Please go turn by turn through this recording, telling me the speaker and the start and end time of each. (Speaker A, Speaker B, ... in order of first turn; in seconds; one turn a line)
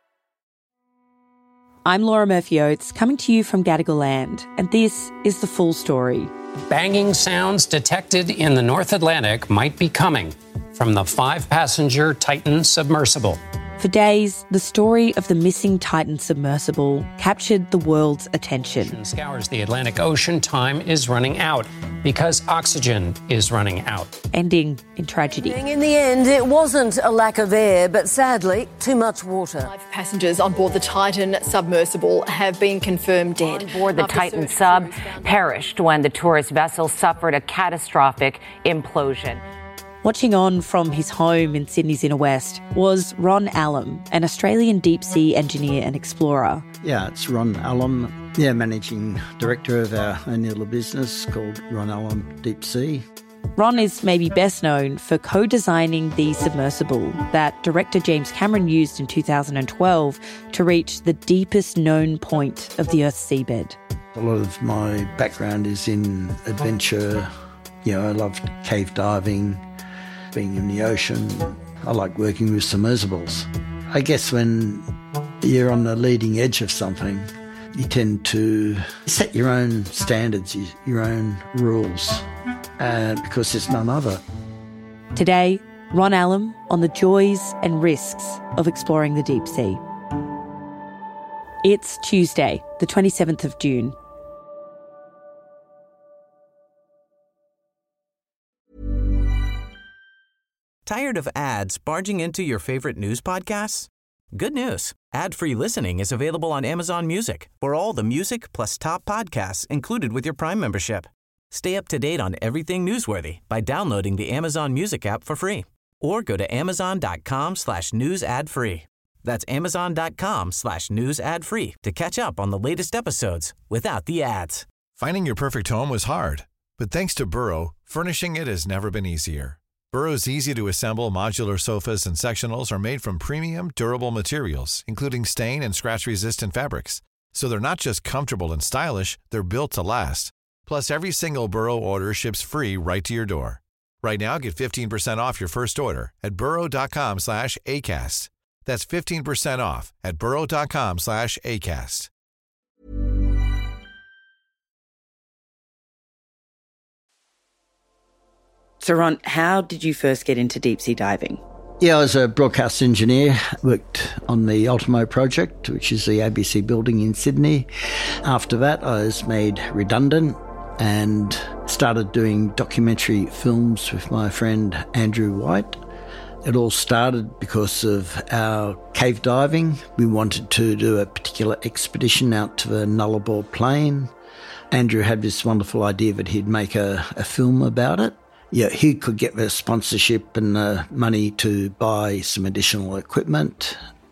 Speaker A: 1.9-6.3
Speaker B: 6.7-13.4
Speaker A: 13.8-18.9
Speaker B: 18.8-24.1
Speaker A: 24.3-25.6
Speaker C: 25.5-29.7
Speaker D: 29.6-35.5
Speaker E: 33.5-39.4
Speaker A: 40.0-46.6
Speaker F: 46.8-53.0
Speaker A: 53.5-63.8
Speaker F: 64.1-67.3
Speaker F: 67.8-69.6
Speaker F: 70.3-74.8
Speaker F: 75.4-82.2
Speaker F: 82.8-84.2
Speaker A: 85.1-89.8
Speaker A: 91.6-94.0
Speaker G: 100.8-124.6
Speaker H: 125.0-152.1
Speaker A: 158.8-161.4
Speaker F: 161.8-167.7
Speaker F: 168.2-175.8
Speaker F: 176.4-184.1
Speaker F: 184.7-193.8